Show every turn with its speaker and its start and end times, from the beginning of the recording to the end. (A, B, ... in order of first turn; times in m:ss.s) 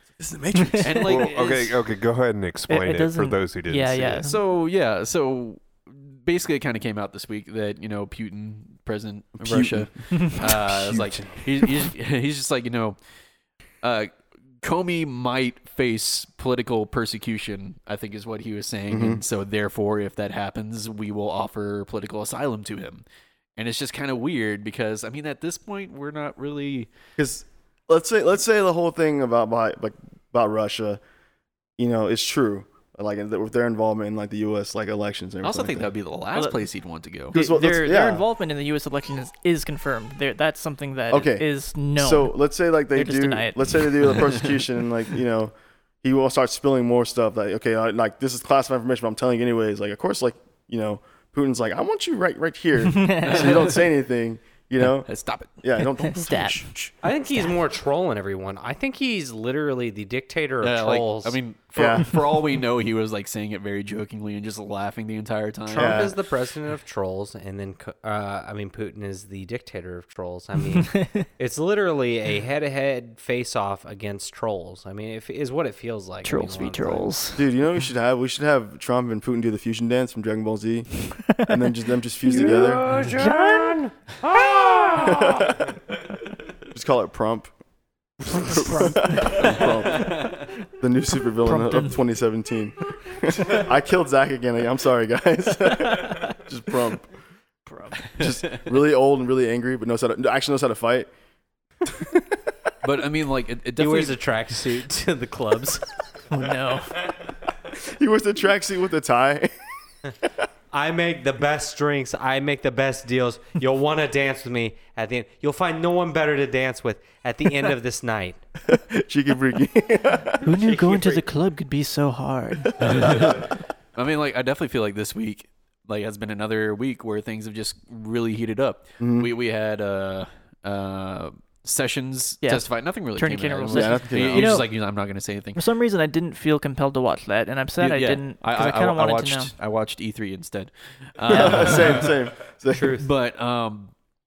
0:00.2-0:01.0 A
0:00.6-0:01.1 B
0:00.8-0:01.8 C
0:01.0-0:04.3 D
0:02.7-0:04.4 B
0:04.2-0:13.0 C
0:09.4-0:11.2 A
0:13.8-0:14.1 C
0:14.6-0:23.0 C
0:18.9-0:19.2 A
0:23.6-0:26.9 C
0:27.2-0:31.0 A
0:31.8-0:35.9 A
0:35.4-0:37.4 C
0:36.3-0:36.6 B
0:37.3-0:38.2 A
0:37.3-0:42.3 B
0:41.1-0:55.1 A
0:42.9-0:44.4 B
0:52.9-0:53.5 B
0:53.2-0:53.9 C
0:55.0-0:55.6 C
0:55.6-0:56.9 A
0:56.0-0:56.6 B
0:57.0-1:01.4 E
1:00.6-1:06.1 C
1:01.8-1:02.1 A
1:05.7-1:17.1 E
1:05.7-1:06.1 A
1:10.8-1:11.2 B
1:16.2-1:17.5 B
1:17.3-1:22.8 A
1:22.3-1:25.5 E
1:22.3-1:23.8 B
1:25.0-1:25.7 A
1:26.7-1:27.5 A
1:28.3-1:37.1 A
1:28.4-1:29.7 B
1:29.4-1:30.5 C
1:31.4-1:32.0 B
1:37.7-1:38.1 B
1:38.1-1:41.1 A
1:38.2-1:38.6 C
1:41.8-1:42.5 A
1:42.8-1:44.2 C
1:43.8-1:45.8 E
1:46.3-1:47.0 B
1:47.7-1:49.5 A
1:50.7-1:58.4 E
1:58.6-2:00.5 A
2:00.4-2:02.7 B
2:00.6-2:01.2 E
2:02.6-2:03.4 A
2:02.8-2:15.7 C
2:09.0-2:09.3 A
2:12.4-2:14.7 B
2:13.7-2:14.6 A
2:15.6-2:19.5 B
2:17.8-2:22.2 C
2:21.3-2:23.0 A
2:21.3-2:22.0 B
2:22.7-2:23.0 E
2:23.0-2:23.9 C